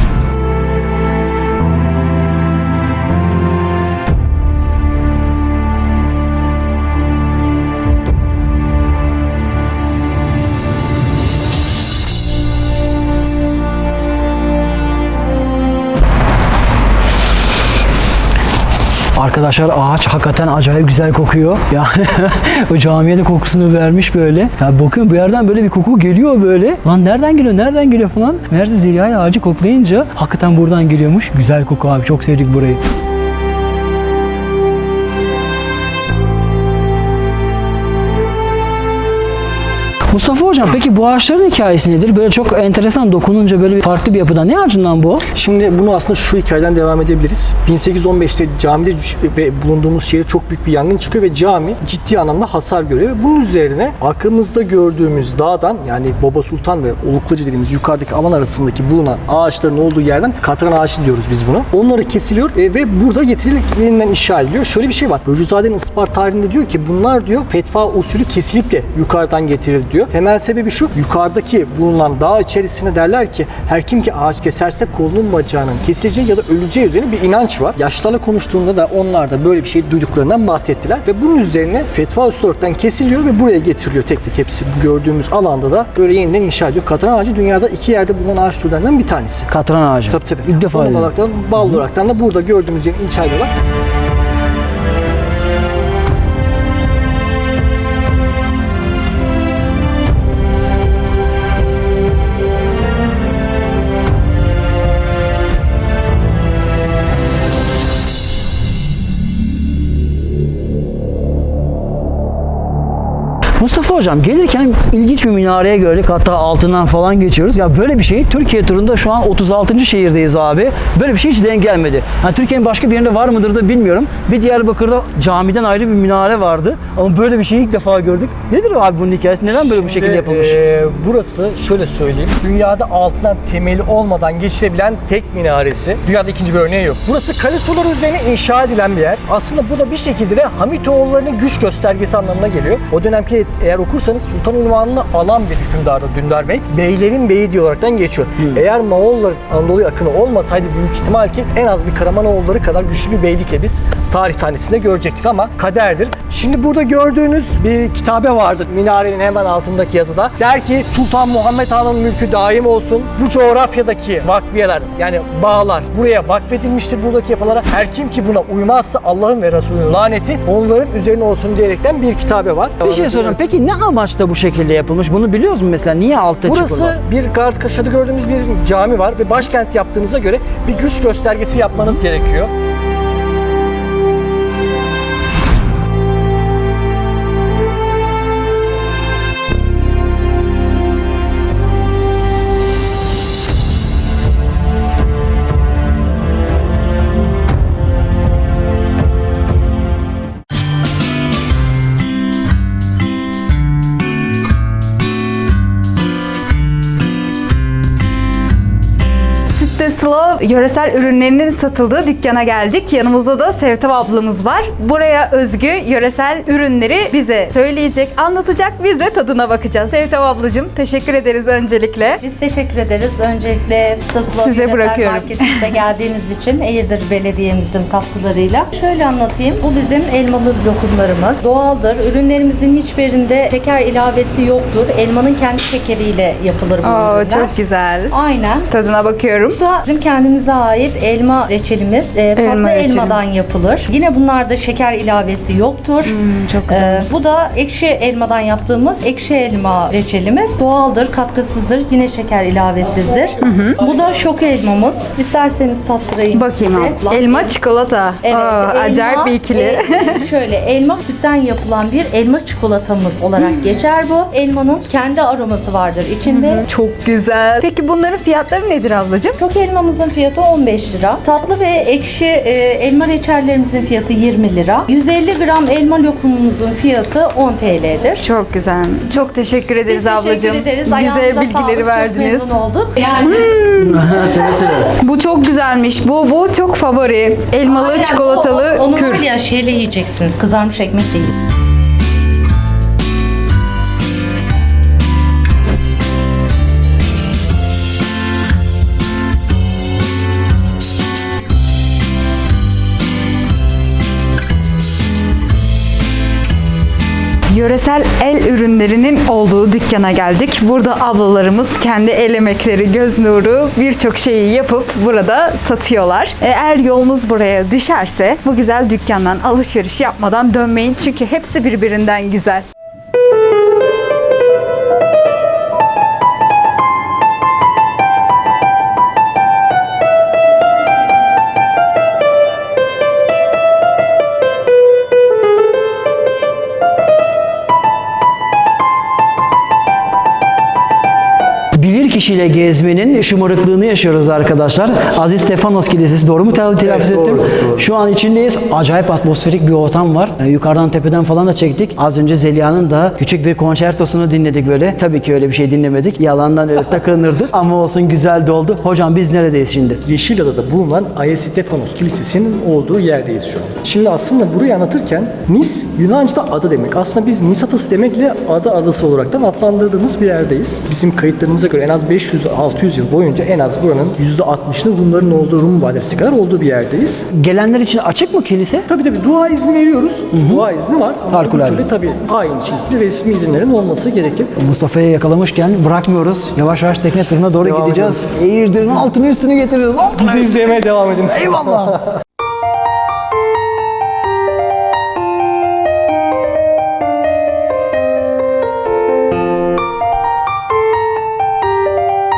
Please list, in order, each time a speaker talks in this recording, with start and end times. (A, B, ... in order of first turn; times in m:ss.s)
0:19.2-0:32.8 A
0:40.1-0:45.2 A
0:45.3-1:29.5 B
1:29.5-1:31.1 A
1:30.1-1:33.5 B
1:53.6-2:10.6 A
2:09.5-2:53.5 B
2:52.8-2:57.0 A
2:56.4-3:02.5 B
3:29.5-3:42.2 C
3:42.2-3:57.5 D
3:44.3-3:45.6 C
3:56.8-3:59.6 C
3:58.1-3:58.6 D
3:59.6-4:17.5 D
4:02.3-4:03.2 C
4:06.0-4:07.1 C
4:13.4-4:13.8 C
4:16.3-4:20.2 C
4:18.2-4:26.6 D
4:26.2-4:29.4 C
4:29.4-4:38.2 D
4:38.2-4:42.6 C
4:39.9-4:43.4 D
4:43.1-4:44.2 C
4:43.8-4:44.9 A
4:44.9-4:49.3 C
4:47.6-4:51.3 D
5:07.5-5:22.6 C
5:41.8-6:00.0 A
6:00.0-6:17.3 B
6:17.3-6:18.9 A
6:18.9-6:24.6 B
6:20.3-6:20.6 A
6:21.3-6:21.8 A
6:24.6-6:30.6 A
6:27.6-6:28.3 B
6:30.3-6:32.1 B
6:31.3-6:31.9 A